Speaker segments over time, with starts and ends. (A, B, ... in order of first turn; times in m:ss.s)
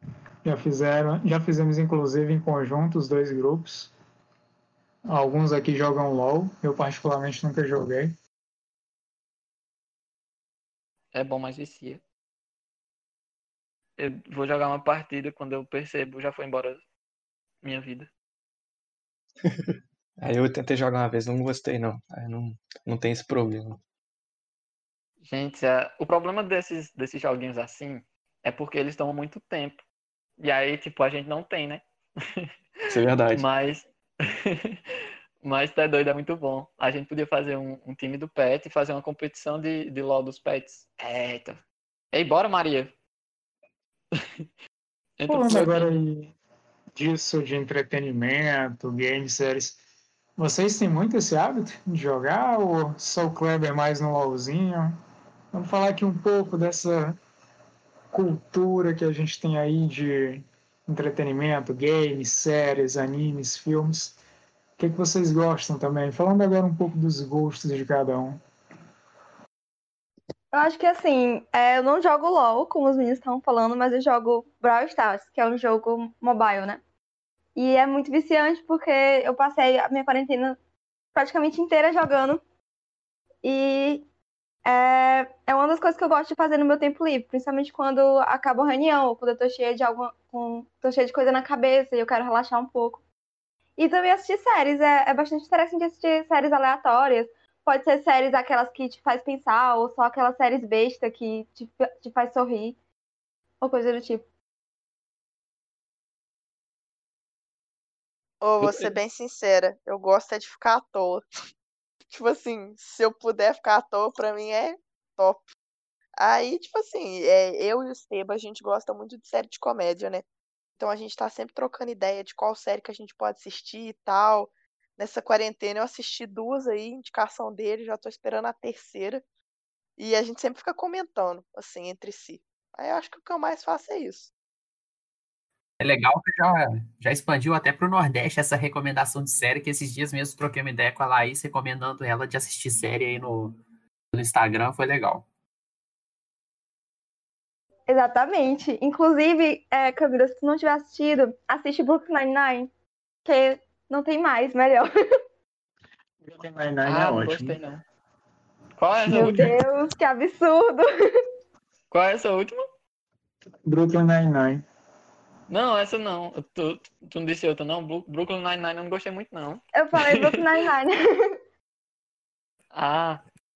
0:00.4-0:03.9 A
0:05.1-0:08.2 A
0:11.1-0:12.0 B
0:14.0-0:16.8 B
0:17.6-0:18.1 B
0:19.5-0:23.8 C
0:25.2-0:29.8 B
0:30.4-0:32.5 B
0:32.9-0:33.4 C
0:33.3-0:34.8 B
0:35.4-0:41.6 B
0:42.1-0:42.9 B
0:45.2-0:46.0 B
0:45.3-0:46.3 A
0:47.0-0:49.8 A
0:50.4-0:55.0 A
0:55.5-0:57.2 A
0:58.1-1:04.2 A
1:04.8-1:08.4 A
1:10.5-1:16.8 D
1:17.6-1:20.6 D
1:21.2-1:22.4 D
1:23.4-1:24.0 D
1:24.7-1:33.0 D
1:33.8-1:42.8 D
1:43.6-1:44.3 D
1:48.4-1:51.2 E
1:52.1-1:55.5 E
1:56.2-2:00.2 E
2:00.8-2:09.2 E
2:10.0-2:14.3 E
2:15.8-2:23.6 F
2:24.1-2:25.3 F
2:27.9-2:32.7 D
2:33.2-2:34.9 D
2:36.2-2:37.6 A
2:36.8-2:37.8 B
2:38.8-2:39.5 B
2:39.0-2:39.6 A
2:39.1-2:41.2 D
2:41.9-2:42.6 B
2:43.6-2:44.6 A
2:45.5-2:50.4 B
2:49.7-2:51.4 D
2:52.7-2:53.2 B